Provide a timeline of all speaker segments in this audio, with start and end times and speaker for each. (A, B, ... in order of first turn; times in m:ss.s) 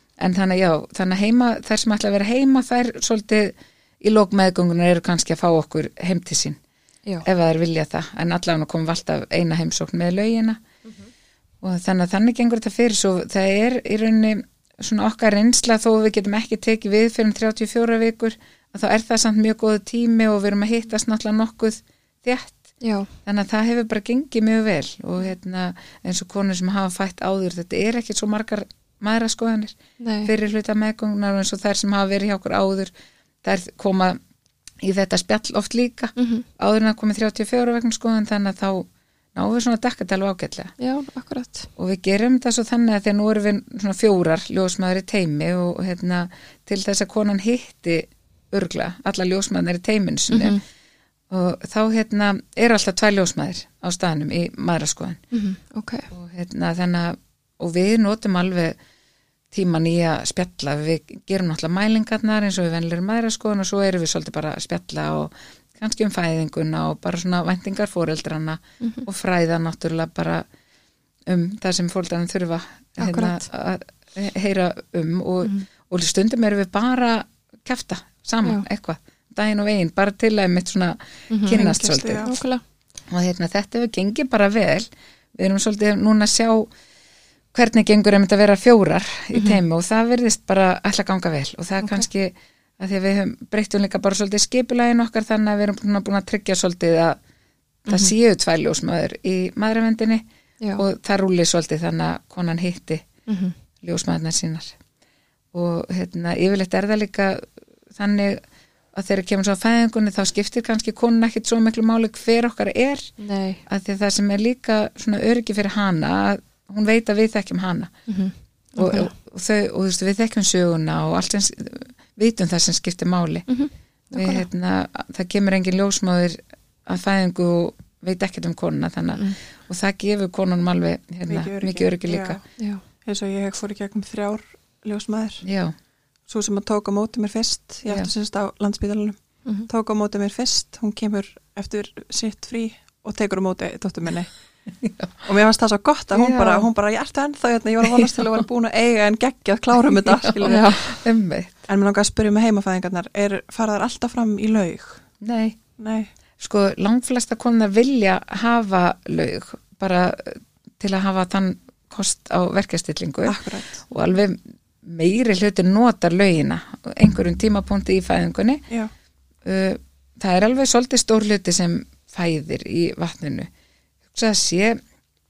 0:00.2-0:06.6 A
0:07.2-0:10.6 A
0:11.6-0:22.6 A
0:22.8-0:23.1 B
0:23.2-0:32.9 A
0:30.0-0:30.3 B
0:33.4-0:34.2 A
0:34.8-0:40.7 A
0:36.2-0:36.4 B
0:40.8-0:41.7 B
0:41.8-0:50.6 A
0:50.3-0:50.6 B
0:51.3-0:55.2 A
0:55.3-0:56.1 B
0:56.1-0:58.8 A
0:59.5-1:10.4 A
1:08.8-1:09.1 B
1:11.3-1:22.3 A
1:13.0-1:13.4 B
1:21.3-1:22.6 B
1:21.5-1:22.4 C
1:23.1-1:26.7 A
1:27.5-1:37.2 A
1:29.3-1:29.6 B
1:37.8-1:40.2 A
1:40.8-1:43.1 A
1:43.3-1:43.5 B
1:43.8-1:44.7 A
1:45.5-1:48.4 A
1:48.9-1:53.1 A
1:53.2-1:53.6 B
1:53.7-1:57.9 A
1:58.1-1:59.1 B
1:58.8-2:03.5 A
2:03.5-2:04.4 B
2:04.2-2:12.4 A
2:11.3-2:12.4 C
2:13.0-2:15.4 C
2:15.4-2:15.7 A
2:16.3-2:24.3 C
2:24.8-2:25.1 A
2:25.2-2:30.6 C
2:26.1-2:26.7 A
2:30.1-2:31.7 A
2:30.4-2:31.0 B
2:31.7-2:35.0 C
2:35.2-2:35.6 A
2:35.8-2:36.1 C
2:36.4-2:48.6 A
2:43.2-2:43.8 C
2:49.4-2:53.5 A
2:54.1-2:54.8 A